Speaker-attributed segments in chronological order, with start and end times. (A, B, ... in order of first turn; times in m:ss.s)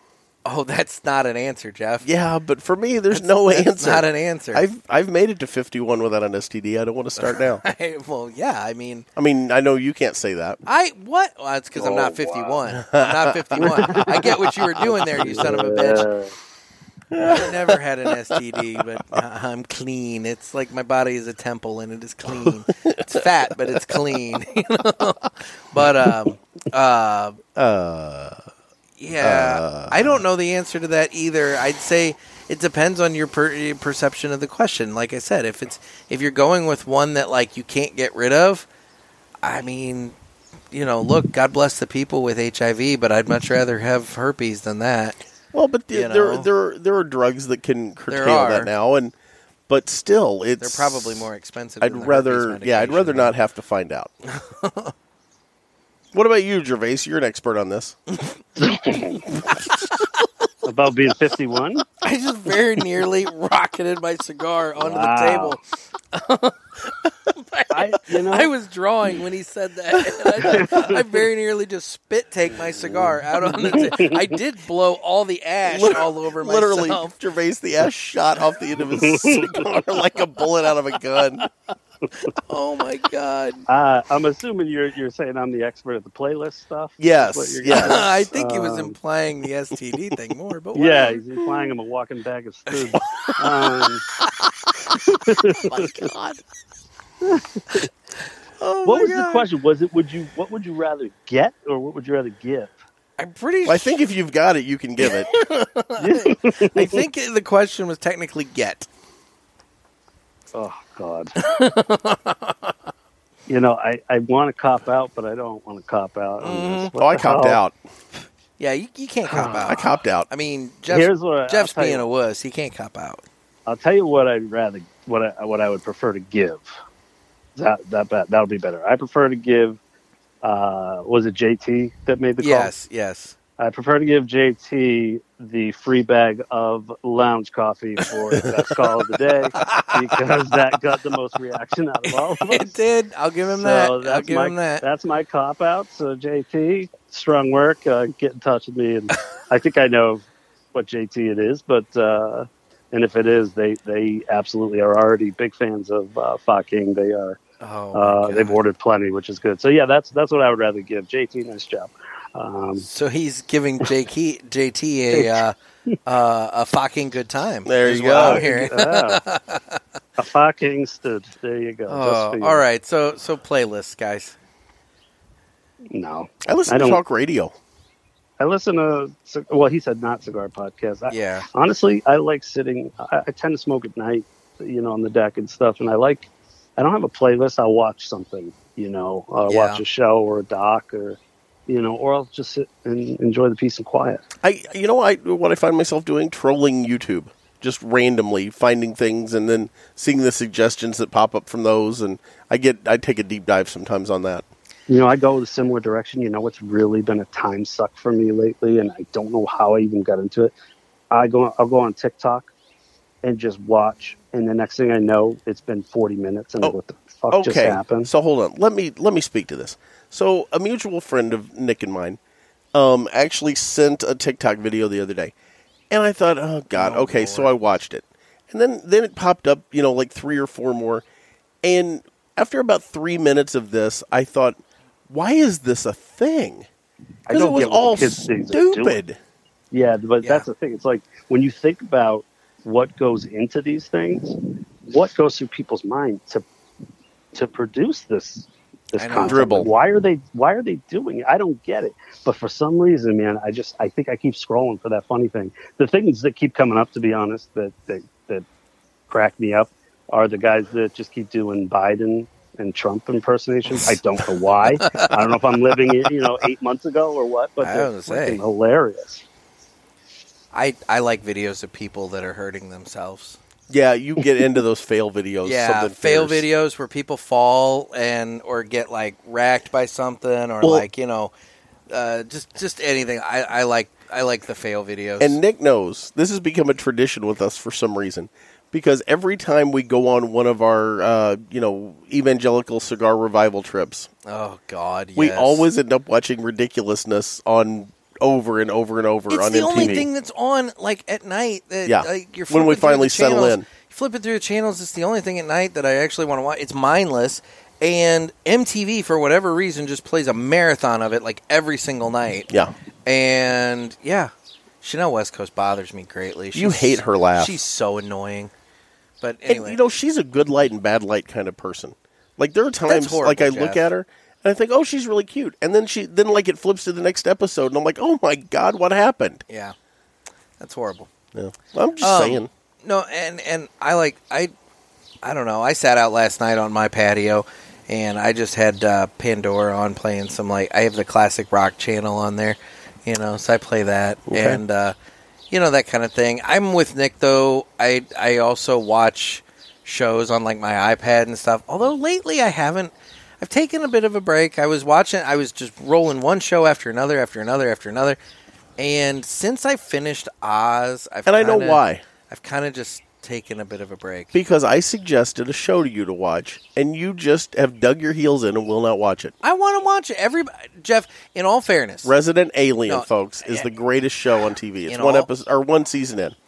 0:00.4-0:02.1 A
0:02.0-0:07.6 B
0:03.1-0:04.7 A
0:07.2-0:09.1 A
0:09.2-0:10.6 B
0:10.7-0:16.1 A
0:11.8-0:12.5 C
0:12.7-0:14.4 B
0:13.6-0:14.2 C
0:15.0-0:16.3 C
0:17.1-0:17.8 B
0:17.2-0:27.4 A
0:22.3-0:23.9 B
0:25.8-0:26.1 B
0:27.6-0:28.5 B
0:29.0-0:38.7 A
0:29.2-0:30.2 B
0:39.4-0:40.2 A
0:40.7-0:45.2 A
0:45.5-0:49.1 B
0:45.9-0:46.5 A
0:48.1-0:48.7 A
0:49.7-0:51.3 B
0:50.6-0:53.3 A
0:51.8-0:54.1 B
0:54.3-0:54.9 A
0:56.1-0:58.0 B
0:58.6-0:59.2 C
0:59.8-1:00.2 A
1:00.6-1:01.8 C
1:02.0-1:05.6 A
1:04.8-1:05.6 C
1:06.1-1:06.6 A
1:07.3-1:17.1 A
1:07.7-1:08.5 C
1:10.1-1:10.6 B
1:10.5-1:10.9 C
1:12.8-1:14.2 C
1:15.6-1:21.5 B
1:18.9-1:19.5 C
1:22.5-1:23.6 A
1:23.7-1:29.0 C
1:27.0-1:28.0 B
1:27.7-1:31.2 A
1:30.8-1:34.0 C
1:35.0-1:35.9 C
1:35.6-1:36.4 B
1:37.2-1:37.9 C
1:38.6-1:39.4 B
1:38.8-1:42.7 C
1:43.2-1:44.0 A
1:43.6-1:45.3 B
1:45.0-1:48.9 A
1:46.0-1:47.0 C
1:50.5-1:51.4 C
1:51.4-1:52.7 A
1:53.5-1:57.6 C
1:56.4-1:56.9 A
1:56.9-1:57.8 B
1:58.6-2:03.2 A
1:59.4-2:00.3 B
2:00.9-2:02.1 C
2:03.7-2:06.7 C
2:07.6-2:09.8 C
2:10.4-2:12.7 C
2:12.4-2:13.4 A
2:13.6-2:22.8 C
2:19.6-2:20.2 A
2:22.1-2:24.8 A
2:23.5-2:37.4 C
2:37.6-2:38.6 A
2:37.9-2:42.9 C
2:42.8-2:49.8 A
2:45.1-2:46.0 C
2:47.7-2:48.4 B
2:48.1-2:49.2 C
2:50.2-2:52.6 C
2:51.9-2:54.4 A
2:55.9-2:57.0 C
2:56.4-2:57.5 B
2:58.4-3:14.2 C
3:01.1-3:01.5 A
3:09.5-3:09.8 A
3:14.4-3:24.4 B
3:24.9-3:30.5 C
3:31.1-3:32.5 C
3:33.2-3:38.1 C
3:37.3-3:42.2 B
3:42.7-3:45.3 B
3:45.9-3:51.0 B
3:46.7-3:47.5 A
3:51.6-3:56.7 B
3:57.3-3:59.0 C
3:57.3-3:59.2 B
3:59.7-4:06.4 C
4:00.2-4:00.5 A
4:07.3-4:18.4 C
4:09.0-4:09.6 A
4:09.2-4:09.7 B
4:19.1-4:29.2 C
4:24.8-4:25.1 A
4:27.6-4:28.4 A
4:30.5-4:33.4 A
4:33.7-4:36.4 B
4:35.4-4:41.3 A
4:41.9-4:45.4 A
4:45.2-4:54.1 B
4:54.3-4:55.7 A
4:55.2-5:00.1 B
4:59.3-5:12.5 A
5:01.9-5:03.7 B
5:13.1-5:18.5 A
5:16.5-5:17.6 B
5:19.2-5:19.8 A
5:19.5-5:29.4 B
5:22.9-5:23.9 A
5:29.5-5:29.8 A
5:30.6-5:31.1 A
5:31.3-5:32.5 B
5:32.0-5:34.5 A
5:35.2-5:45.0 A
5:44.3-5:44.6 B
5:45.5-5:58.2 A
5:58.8-6:04.3 A
6:01.3-6:02.0 B
6:04.3-6:09.3 B
6:09.4-6:12.1 A
6:12.0-6:16.4 B
6:12.9-6:13.7 A
6:14.9-6:15.3 A